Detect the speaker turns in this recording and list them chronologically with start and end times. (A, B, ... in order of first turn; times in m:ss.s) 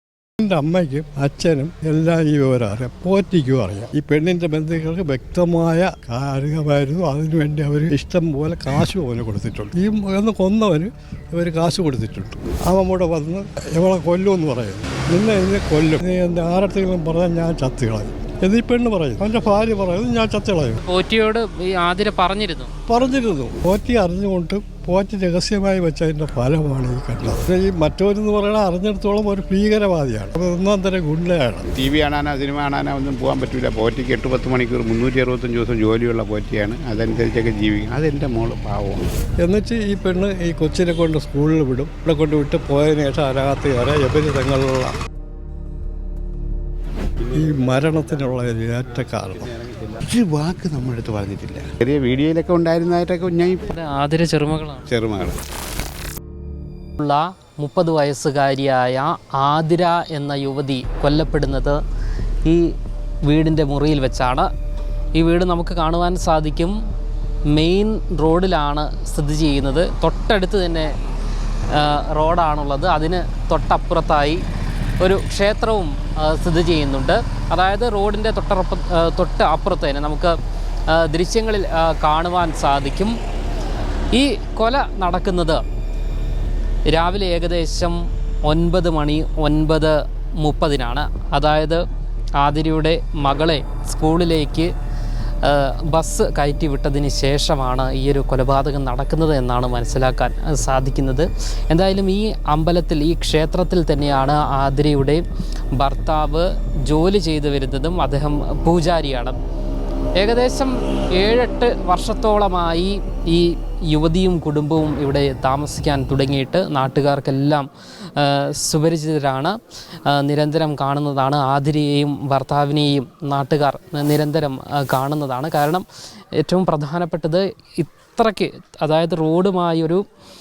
0:00.4-0:20.8 A
0:20.8-0:22.7 B
0:22.9-0:31.7 A
0:31.8-0:39.1 C
0:39.4-0:44.9 A
0:47.3-0:49.5 A
0:49.5-0:53.6 C
0:53.7-0:54.9 B
0:54.9-0:55.4 C
0:57.0-1:01.8 B
1:02.4-1:02.7 B
1:03.3-1:04.5 B
1:05.1-1:06.8 B
1:07.5-1:10.9 B
1:11.7-1:14.4 B
1:15.0-1:20.4 B
1:20.9-1:23.2 B
1:24.1-1:25.6 B
1:26.9-1:31.8 B
1:32.4-1:34.7 B
1:35.4-1:45.2 B
1:45.8-1:49.4 B
1:50.2-1:59.5 B
2:00.0-2:05.8 B
2:06.4-2:10.0 B